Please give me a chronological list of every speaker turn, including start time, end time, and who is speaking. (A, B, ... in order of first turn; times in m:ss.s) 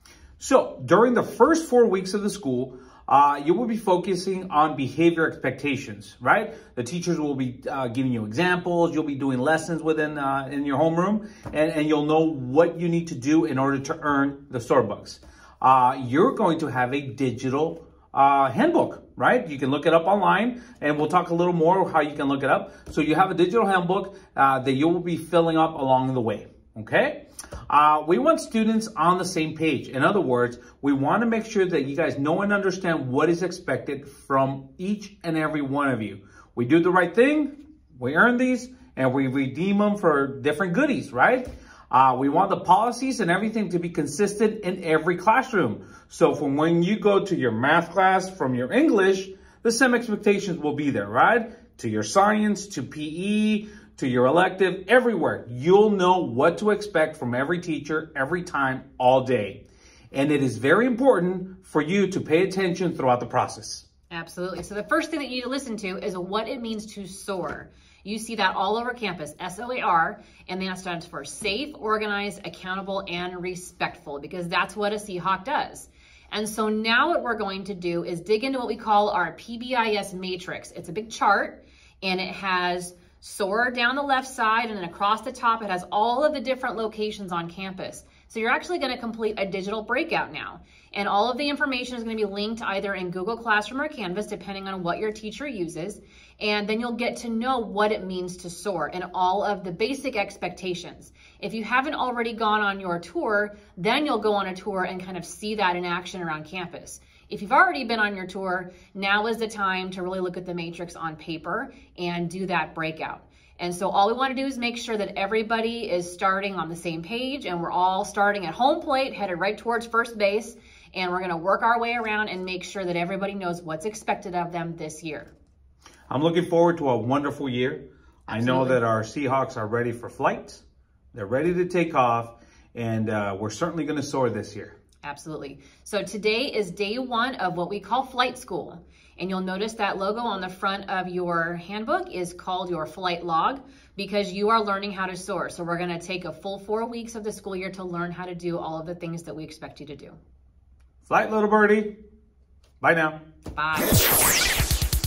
0:00.4-1:03.8 A
1:04.1-2:05.3 B
2:06.1-2:10.6 A
2:08.3-2:08.8 B
2:11.1-2:14.7 A
2:15.0-2:30.2 B
2:31.1-2:32.0 A
2:32.8-2:33.2 A
2:33.5-2:34.0 B